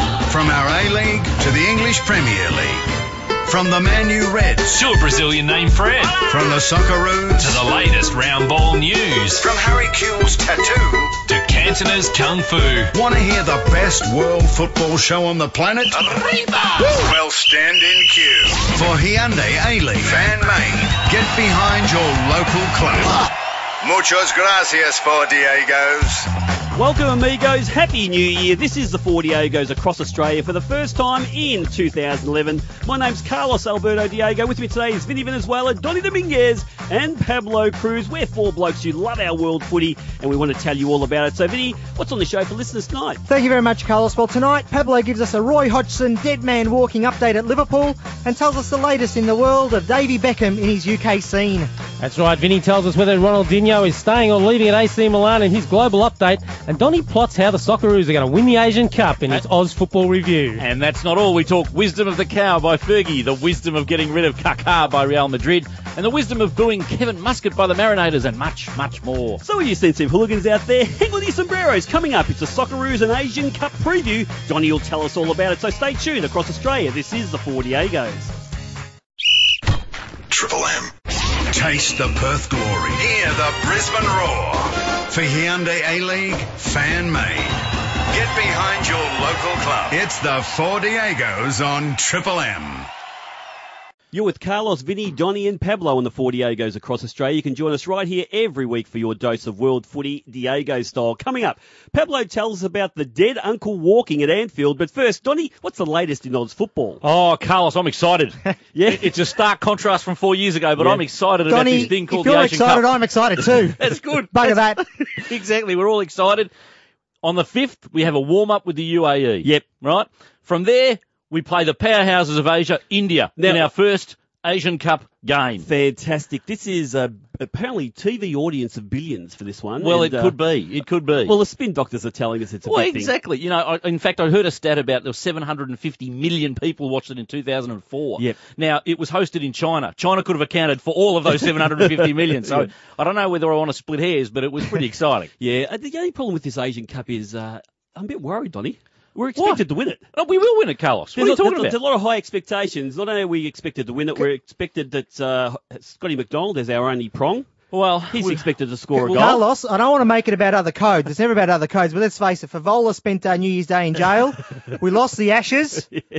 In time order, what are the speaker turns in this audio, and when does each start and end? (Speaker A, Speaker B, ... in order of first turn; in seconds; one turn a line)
Speaker A: 0.3-2.9
Speaker A: 3.4-4.8
Speaker B: 4.7-6.3
Speaker A: 6.2-7.7
Speaker B: 7.4-9.5
Speaker A: 9.4-11.2
Speaker B: 11.3-12.9
Speaker A: 12.9-23.3
Speaker A: 23.8-26.3
Speaker C: 26.8-43.2
Speaker D: 43.3-51.7
Speaker E: 52.0-60.6
Speaker F: 60.6-69.4
Speaker C: 69.4-78.3
Speaker A: 80.4-80.8
Speaker A: 81.5-92.9
Speaker C: 94.1-107.0
Speaker F: 107.0-112.9
Speaker C: 108.7-109.2
Speaker C: 110.8-111.0
Speaker D: 111.5-114.8
Speaker F: 113.8-116.5
Speaker F: 117.2-125.7
Speaker C: 123.4-123.7
Speaker C: 125.6-130.4
Speaker F: 129.8-131.3
Speaker C: 131.3-133.1
Speaker F: 132.7-145.3
Speaker C: 141.8-142.7
Speaker C: 145.4-150.1
Speaker F: 149.4-149.6
Speaker F: 150.1-151.8
Speaker C: 151.2-157.6
Speaker F: 157.7-159.4
Speaker C: 158.1-159.4
Speaker D: 159.0-165.9